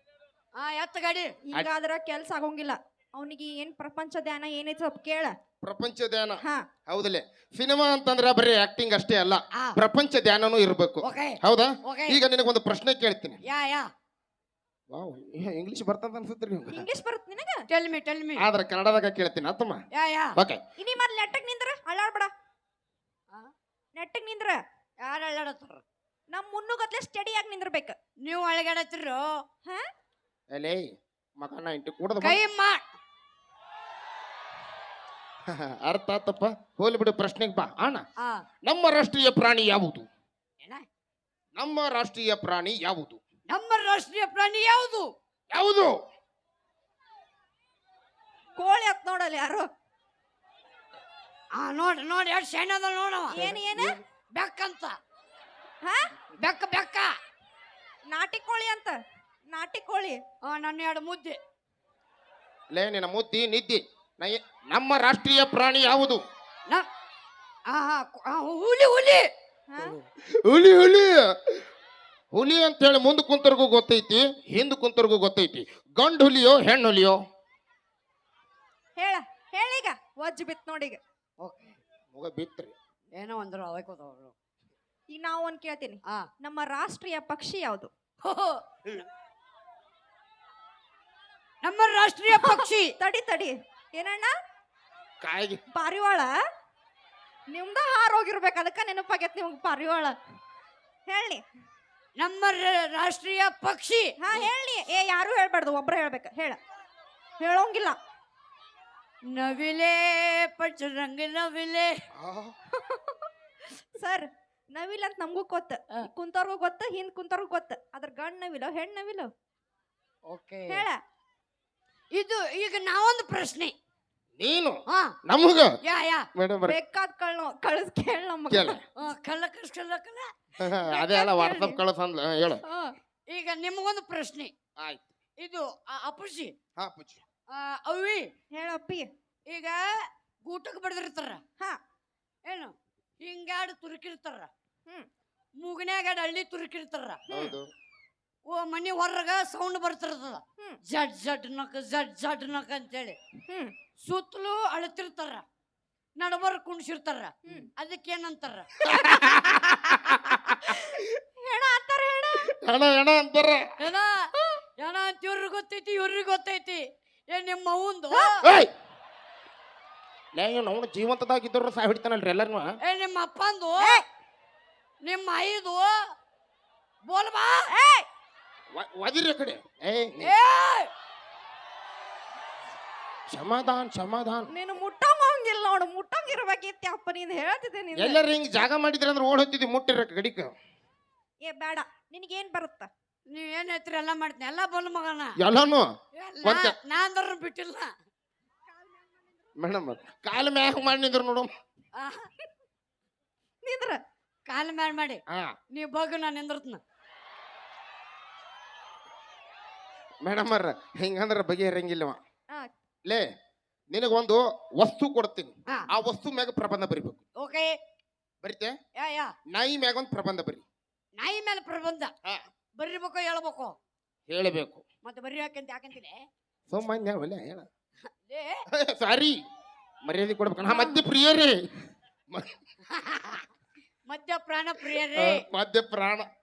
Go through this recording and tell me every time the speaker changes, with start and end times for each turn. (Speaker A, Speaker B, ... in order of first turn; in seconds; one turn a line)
Speaker A: 0.6-1.3
Speaker B: 1.4-5.3
Speaker C: 5.6-13.4
Speaker A: 11.0-12.2
Speaker A: 13.5-13.8
Speaker C: 14.9-16.8
Speaker B: 16.7-17.6
Speaker A: 17.7-18.4
Speaker C: 18.4-19.8
Speaker A: 20.0-20.3
Speaker C: 20.4-20.6
Speaker B: 20.8-22.3
Speaker B: 23.9-24.6
Speaker A: 25.0-25.8
Speaker B: 26.3-27.9
Speaker A: 28.2-29.2
Speaker C: 30.5-30.9
Speaker C: 31.4-32.4
Speaker A: 32.2-32.8
Speaker C: 35.5-38.0
Speaker C: 38.6-40.1
Speaker C: 41.5-43.2
Speaker A: 43.5-45.0
Speaker C: 45.5-45.9
Speaker B: 48.6-49.6
Speaker A: 51.6-53.4
Speaker B: 53.3-54.0
Speaker C: 53.4-54.0
Speaker A: 54.3-55.0
Speaker A: 56.4-57.1
Speaker B: 58.1-58.9
Speaker B: 59.5-60.2
Speaker A: 60.4-61.4
Speaker C: 62.7-66.2
Speaker A: 67.7-69.2
Speaker C: 70.3-71.6
Speaker C: 72.3-77.2
Speaker B: 79.0-81.0
Speaker A: 81.4-81.8
Speaker C: 82.1-82.7
Speaker A: 83.2-84.3
Speaker B: 85.1-87.9
Speaker A: 88.2-89.0
Speaker A: 91.6-92.9
Speaker B: 92.3-94.3
Speaker C: 95.2-95.6
Speaker B: 95.7-96.3
Speaker B: 97.5-100.2
Speaker B: 101.1-101.4
Speaker A: 102.2-104.5
Speaker B: 104.2-106.6
Speaker B: 107.4-108.0
Speaker A: 109.3-111.9
Speaker C: 112.2-112.5
Speaker B: 112.7-113.3
Speaker B: 114.0-119.3
Speaker A: 120.3-120.8
Speaker B: 120.7-121.0
Speaker A: 122.1-123.7
Speaker C: 124.4-125.7
Speaker A: 125.9-126.2
Speaker C: 126.3-126.8
Speaker B: 126.7-128.8
Speaker C: 128.5-128.8
Speaker A: 129.0-130.2
Speaker C: 130.6-132.6
Speaker B: 131.0-131.8
Speaker B: 132.6-132.9
Speaker A: 133.3-134.5
Speaker C: 134.8-135.1
Speaker A: 135.4-136.5
Speaker C: 136.8-137.2
Speaker A: 137.5-138.2
Speaker B: 138.5-139.0
Speaker A: 139.5-139.8
Speaker A: 140.4-141.4
Speaker A: 142.5-144.5
Speaker A: 145.6-147.2
Speaker B: 147.3-147.6
Speaker C: 147.3-147.7
Speaker A: 148.5-153.2
Speaker A: 154.0-155.4
Speaker A: 156.2-158.7
Speaker C: 158.8-160.7
Speaker B: 158.9-159.3
Speaker B: 160.5-162.5
Speaker C: 162.6-163.7
Speaker A: 163.8-164.2
Speaker B: 164.3-164.6
Speaker A: 164.8-168.3
Speaker C: 168.4-168.7
Speaker C: 170.3-172.7
Speaker A: 172.8-174.0
Speaker B: 173.8-174.0
Speaker A: 175.0-175.9
Speaker A: 177.1-177.7
Speaker B: 177.7-178.1
Speaker C: 178.7-180.3
Speaker A: 180.2-180.9
Speaker C: 183.3-184.5
Speaker B: 184.5-188.2
Speaker C: 187.9-190.5
Speaker B: 191.4-192.9
Speaker A: 193.3-195.3
Speaker C: 195.4-195.9
Speaker A: 196.2-197.9
Speaker C: 196.4-196.8
Speaker C: 199.6-201.5
Speaker A: 202.0-202.3
Speaker B: 203.6-204.0
Speaker A: 204.5-205.2
Speaker A: 205.7-206.8
Speaker C: 210.2-212.2
Speaker C: 213.9-217.2
Speaker A: 217.4-217.7
Speaker C: 218.4-218.7
Speaker A: 219.0-219.3
Speaker C: 219.5-220.6
Speaker A: 221.2-222.1
Speaker A: 222.8-223.8
Speaker C: 224.3-224.8
Speaker A: 225.0-226.2
Speaker C: 226.7-227.7
Speaker A: 228.2-228.6
Speaker C: 228.7-229.3
Speaker C: 230.0-231.5
Speaker B: 230.7-231.0
Speaker A: 232.9-233.5
Speaker A: 234.1-235.4
Speaker C: 235.1-236.3